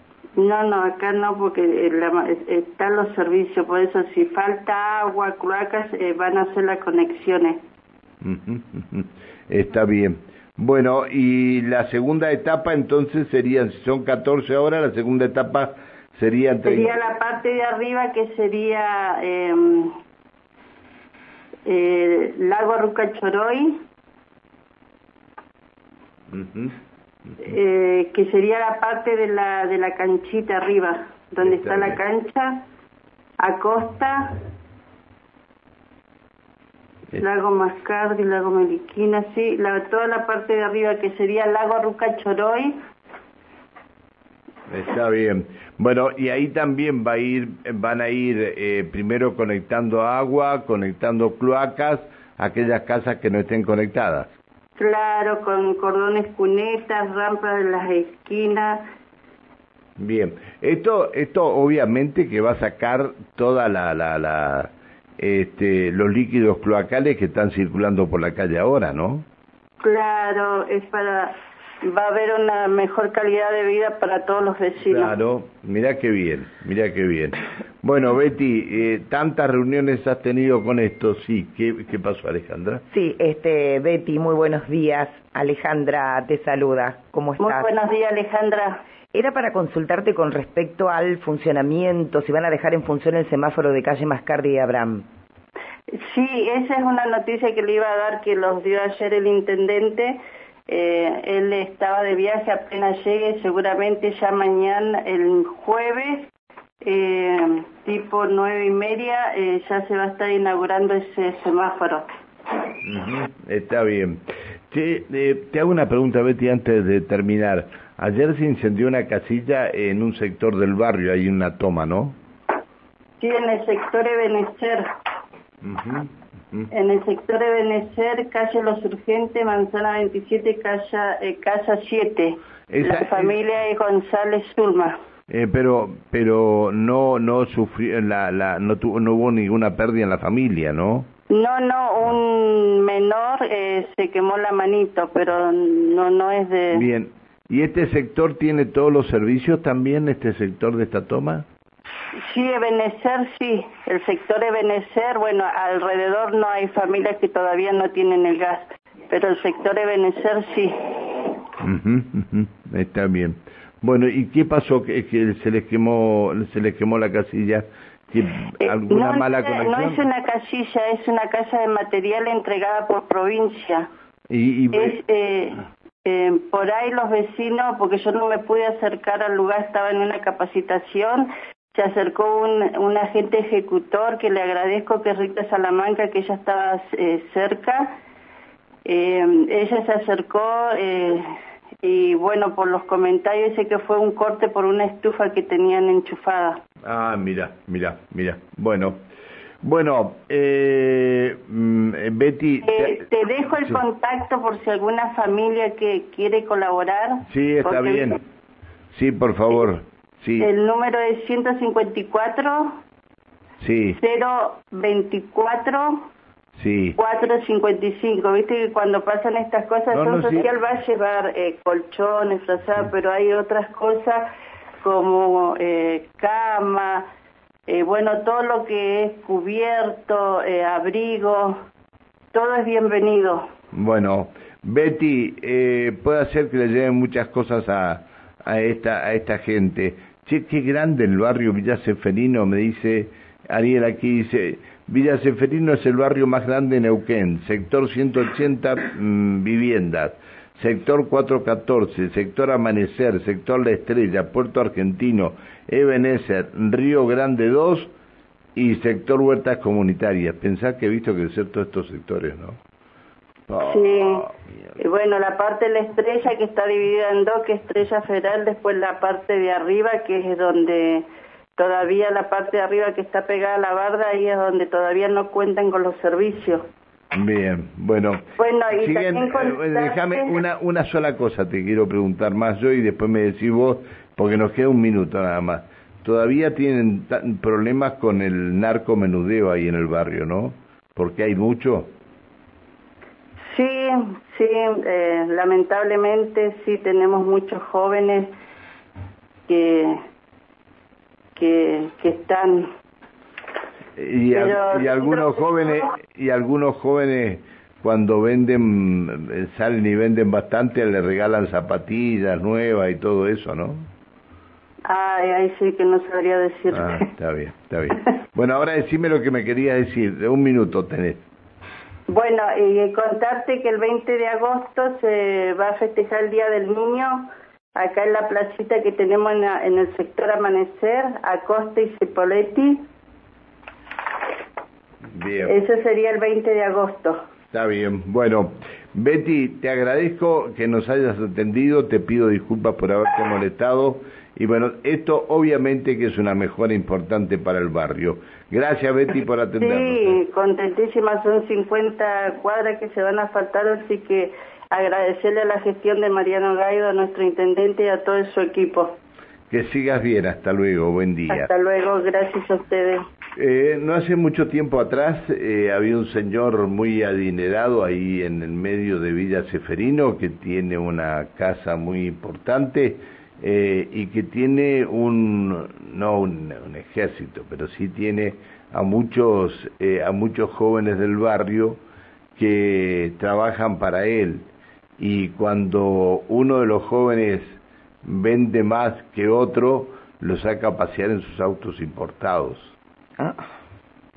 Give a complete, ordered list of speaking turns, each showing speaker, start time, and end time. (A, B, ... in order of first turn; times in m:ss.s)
0:00.4-0:07.6 A
0:08.2-0:17.0 B
0:16.6-0:19.9 A
0:21.6-0:23.8 A
0:26.3-0:26.8 B
0:27.4-0:32.6 A
0:31.4-0:32.0 B
0:33.4-0:34.4 A
0:37.2-0:42.8 A
0:44.7-0:54.3 B
0:54.8-0:58.8 A
1:00.0-1:09.2 B
1:09.8-1:15.1 A
1:14.8-1:22.8 B
1:22.9-1:27.7 C
1:27.4-1:28.8 A
1:29.1-1:35.0 C
1:35.9-1:46.3 A
1:46.8-1:52.0 A
1:52.8-2:02.2 B
2:03.2-2:04.8 A
2:05.6-2:06.7 B
2:06.7-2:15.0 A
2:12.7-2:13.3 B
2:15.3-2:21.1 B
2:21.3-2:26.8 A
2:26.7-2:31.4 B
2:32.3-2:41.4 A
2:41.6-2:50.0 B
2:48.6-2:53.9 A
2:54.3-2:55.0 B
2:54.7-3:07.9 A
3:08.8-3:11.2 A
3:11.8-3:16.6 A
3:16.8-3:19.0 B
3:19.6-3:23.0 B
3:22.6-3:28.1 A
3:27.3-3:28.2 B
3:28.9-3:30.5 B
3:30.4-3:32.8 A
3:33.6-3:34.0 B
3:34.0-3:36.1 A
3:36.6-3:37.0 B
3:37.0-3:44.3 A
3:39.9-3:40.5 B
3:44.8-3:47.0 A
3:47.7-3:51.6 A
3:52.3-3:53.5 A
3:53.7-4:17.9 B
4:18.6-4:22.6 B
4:23.5-4:24.3 B
4:23.6-4:24.3 A
4:24.8-4:31.0 A
4:31.6-4:36.6 A
4:37.1-4:51.9 B
4:38.4-4:40.3 A
4:53.5-4:58.3 A
4:59.5-5:00.0 A
5:01.4-5:02.7 A
5:04.0-5:13.8 B
5:04.3-5:05.9 A
5:14.9-5:17.1 A
5:16.7-5:21.2 B
5:22.1-5:32.8 A
5:35.1-5:35.5 B
5:35.5-5:37.2 A
5:37.5-5:50.2 B
5:49.6-5:59.0 A
5:59.5-6:01.5 B
6:01.3-6:03.0 A
6:03.4-6:21.8 B
6:22.4-6:24.5 B
6:25.0-6:32.8 B